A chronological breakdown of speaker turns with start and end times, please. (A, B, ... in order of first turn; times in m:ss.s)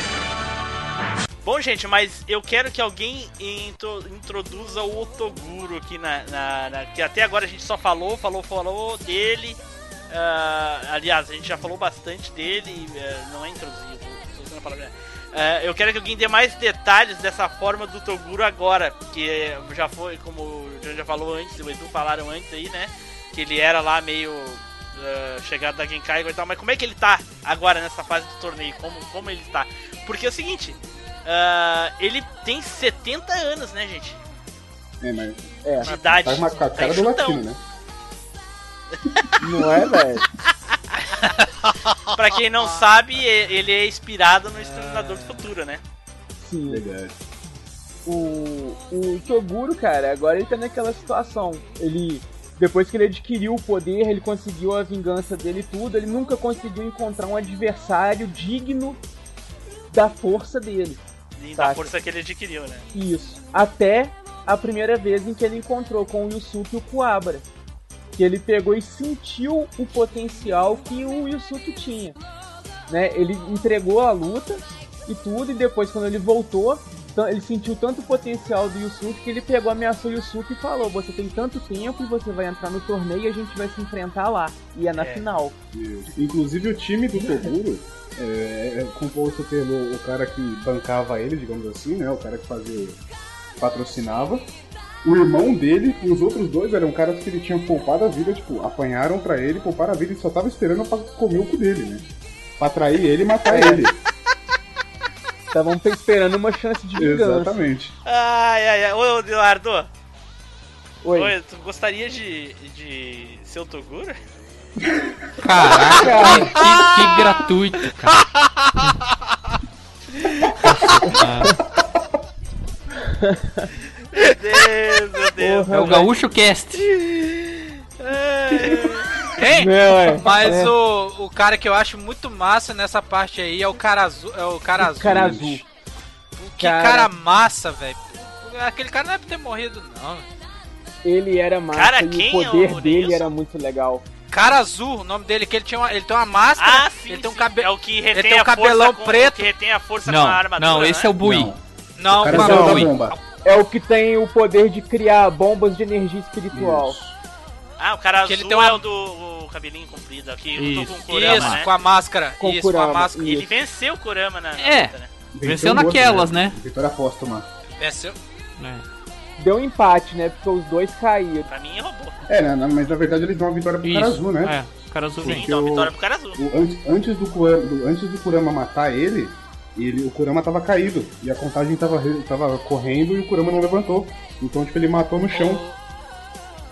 0:01.4-0:34.2 A
0:35.0-0:37.6 B
0:35.6-0:35.9 C
0:35.8-0:37.4 A
0:38.9-0:39.3 A
0:39.4-0:40.2 C
0:41.7-0:42.0 D
0:42.1-0:45.8 A
0:44.6-0:45.5 D
0:46.4-0:46.8 C
0:46.7-0:47.2 B
0:48.0-0:59.0 C
0:59.9-1:01.0 C
1:01.4-1:02.8 A
1:01.6-1:01.8 C
1:02.9-1:07.4 C
1:08.2-1:12.2 C
1:12.9-1:25.5 C
1:25.0-1:25.2 A
1:25.7-1:33.0 B
1:33.6-1:34.5 B
1:35.0-1:42.0 B
1:42.6-1:44.0 B
1:43.5-1:43.8 C
1:45.5-1:47.5 C
1:47.0-1:47.9 B
1:48.0-1:49.9 A
1:51.0-1:51.3 C
1:51.1-1:54.2 A
1:54.8-1:55.3 B
1:55.4-1:58.2 E
1:56.0-1:57.3 C
1:56.1-1:56.4 B
2:00.6-2:01.5 E
2:00.8-2:01.1 B
2:03.1-2:03.7 C
2:04.2-2:06.0 A
2:05.4-2:06.1 C
2:05.7-2:06.8 E
2:08.0-2:09.1 A
2:09.3-2:15.6 D
2:09.5-2:10.7 C
2:14.9-2:15.6 B
2:15.0-2:15.6 C
2:16.4-2:20.3 D
2:16.6-2:17.1 C
2:21.0-2:24.0 C
2:21.7-2:23.3 A
2:24.3-2:29.5 D
2:26.6-2:31.1 A
2:30.0-2:31.5 E
2:31.2-2:31.6 B
2:32.0-2:33.2 D
2:32.1-2:33.2 B
2:32.3-2:32.9 C
2:32.4-2:32.9 E
2:33.4-2:37.0 C
2:36.5-2:37.2 B
2:37.8-2:41.7 A
2:38.2-2:38.8 D
2:40.6-2:41.7 E
2:41.1-2:43.4 D
2:42.4-2:43.5 C
2:43.3-2:45.1 A
2:44.6-2:46.6 E
2:45.3-2:47.5 B
2:47.8-2:48.2 D
2:48.6-2:48.8 E
2:49.4-2:51.5 C
2:51.5-2:52.2 A
2:52.3-2:54.6 B
2:53.8-2:55.4 E
2:55.2-2:56.4 A
2:55.2-3:05.6 B
3:05.3-3:05.8 D